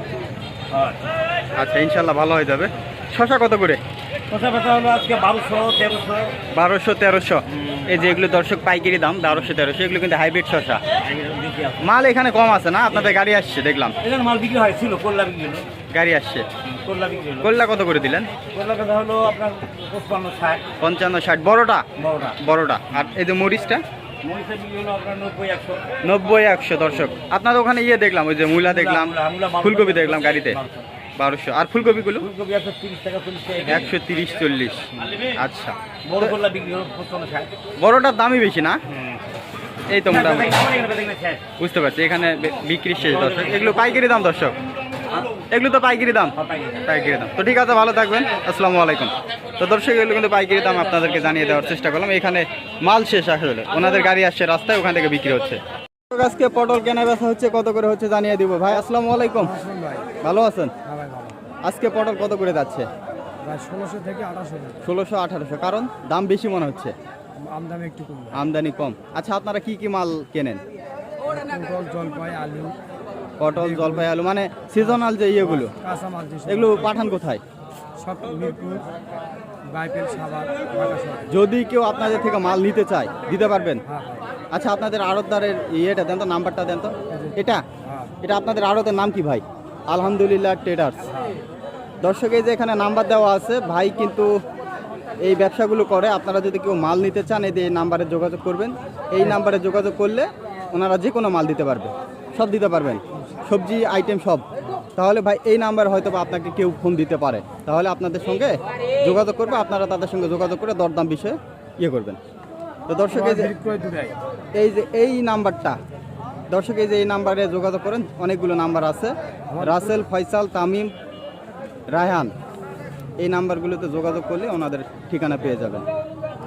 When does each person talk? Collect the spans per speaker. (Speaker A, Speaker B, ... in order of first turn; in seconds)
Speaker A: 0.7-1.0, 4.3-6.4, 11.0-11.8, 14.0-15.7, 16.6-17.5, 18.5-20.7, 22.0-22.4, 24.2-25.9, 28.6-30.9, 32.2-33.9, 36.1-37.5, 40.1-41.4, 43.0-44.0, 46.4-46.8
Speaker B: 1.6-3.8, 6.5-10.8, 11.8-13.9, 15.9-16.4, 17.4-18.3, 20.8-21.8, 22.4-23.8, 26.0-30.6, 31.2-32.3, 33.7-36.3, 37.8-38.8, 39.9-40.6, 41.6-44.5, 45.5-55.6, 56.1-59.6, 60.2-60.7, 61.6-62.9, 64.8-66.9, 68.3-70.6, 73.4-75.7, 76.4-77.4, 81.3-83.8, 84.5-87.6, 88.2-91.1, 92.0-94.3, 95.2-104.4, 105.0-112.2, 112.9-113.5, 114.5-115.8, 116.5-120.9, 121.9-122.3, 123.2-125.8
Speaker C: 59.6-60.0, 60.9-61.3, 63.5-64.8, 67.5-68.3, 71.4-72.8, 75.8-76.5, 78.0-78.8, 79.7-81.2, 113.5-114.1